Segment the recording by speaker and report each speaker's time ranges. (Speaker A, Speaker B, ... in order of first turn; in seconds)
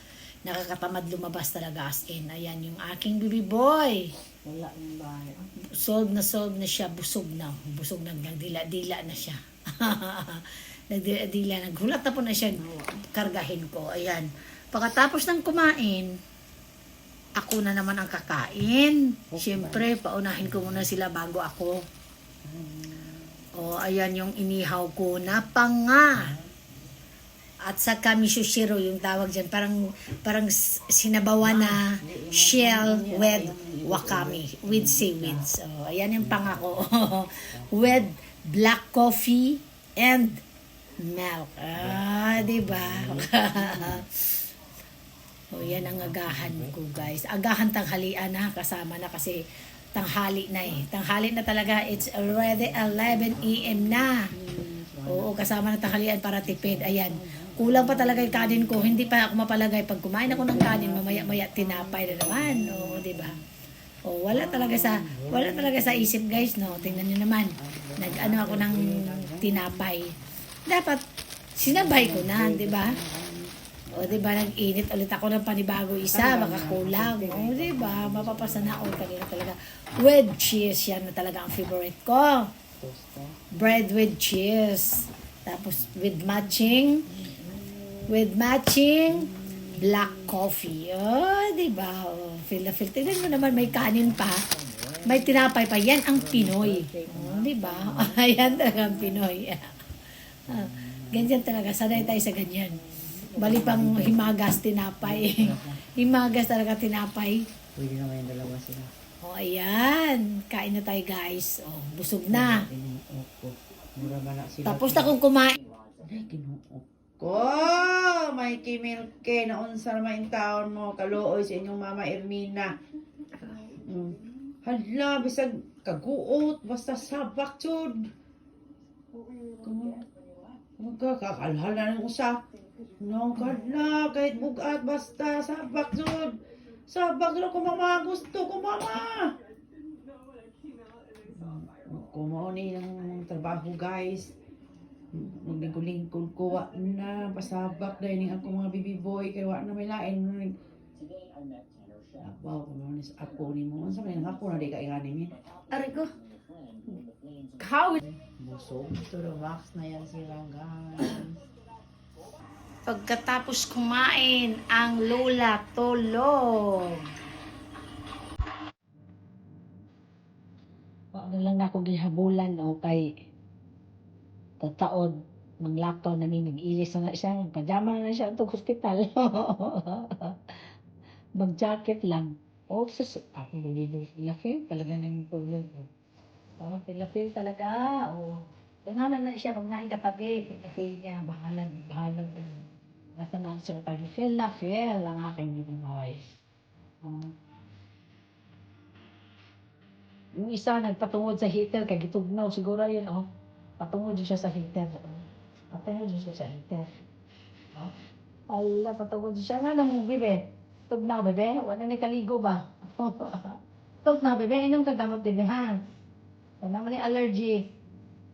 Speaker A: 0.4-16.1, 17.4-21.8, 23.6-26.3, 27.6-40.4, 41.0-44.2, 45.5-49.4, 49.9-54.2, 55.1-63.3, 64.1-70.1, 70.7-71.0, 71.6-72.9, 74.0-82.5, 83.5-87.0, 88.1-89.2, 89.8-94.4, 95.0-99.7, 100.5-102.8, 103.4-107.4, 109.2-112.6, 114.7-115.6, 155.7-156.1, 157.6-158.0, 162.9-167.0, 171.1-173.1, 174.6-180.5, 181.4-185.9, 186.6-192.6, 193.2-196.2, 200.4-203.3, 203.8-206.8, 208.5-215.8, 216.6-217.6
Speaker B: 12.4-13.0, 19.3-19.9, 20.4-20.9, 22.4-23.3, 26.1-26.6, 31.4-35.5, 36.2-38.1, 41.8-44.0, 45.6-47.1, 52.2-55.5, 56.4-59.1, 60.2-63.4, 64.3-69.9, 71.6-74.8, 76.0-79.1, 82.8-84.0, 85.7-88.4, 89.1-90.4, 93.0-99.2, 100.5-102.4, 103.0-104.5, 105.0-106.5, 107.8-108.9, 112.3-115.2, 116.0-122.7, 123.7-128.0, 129.6-130.1, 130.8-132.4, 133.0-136.3, 136.9-139.3, 141.2-144.3, 145.1-150.5, 152.2-155.3, 158.0-161.4